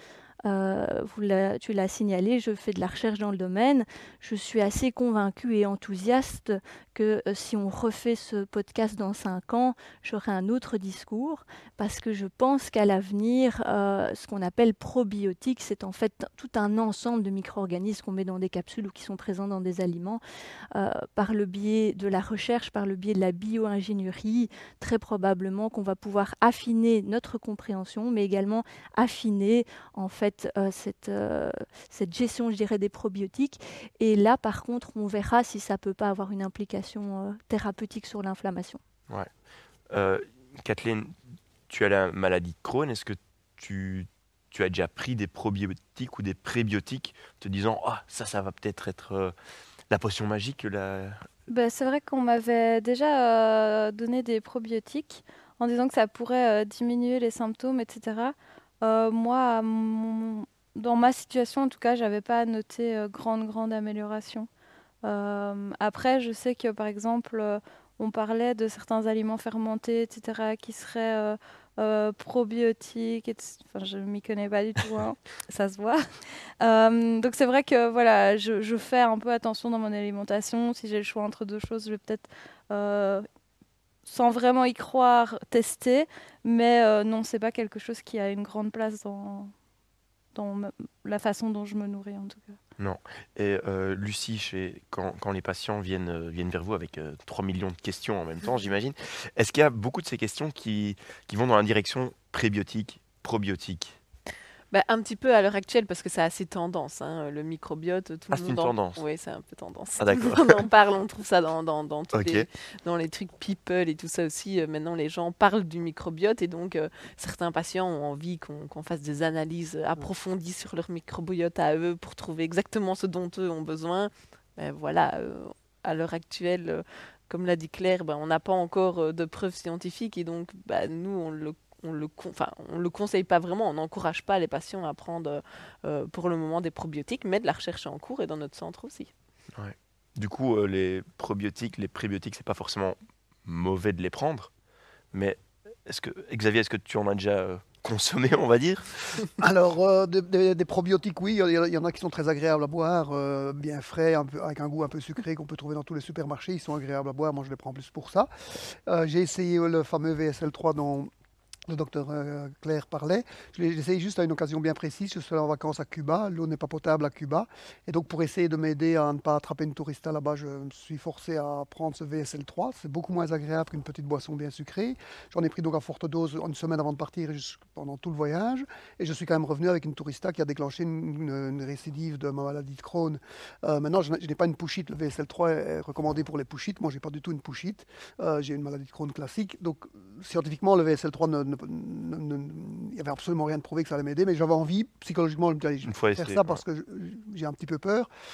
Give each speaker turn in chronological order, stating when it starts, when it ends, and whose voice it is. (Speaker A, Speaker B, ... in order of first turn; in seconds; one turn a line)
Speaker A: 0.5-20.2
Speaker A: 20.8-38.8
Speaker B: 39.9-41.1
Speaker B: 41.7-49.3
Speaker B: 49.9-51.2
Speaker C: 51.5-64.5
Speaker C: 65.0-76.0
Speaker C: 76.6-83.2
Speaker C: 84.1-89.5
Speaker C: 90.3-92.6
Speaker B: 92.8-104.0
Speaker D: 104.7-139.1
Speaker B: 108.3-109.0
Speaker B: 110.0-110.4
Speaker B: 112.1-112.5
Speaker B: 139.6-144.5
Speaker B: 145.1-149.2
Speaker E: 149.4-158.3
Speaker E: 158.9-161.1
Speaker E: 161.7-198.1
Speaker B: 195.8-196.6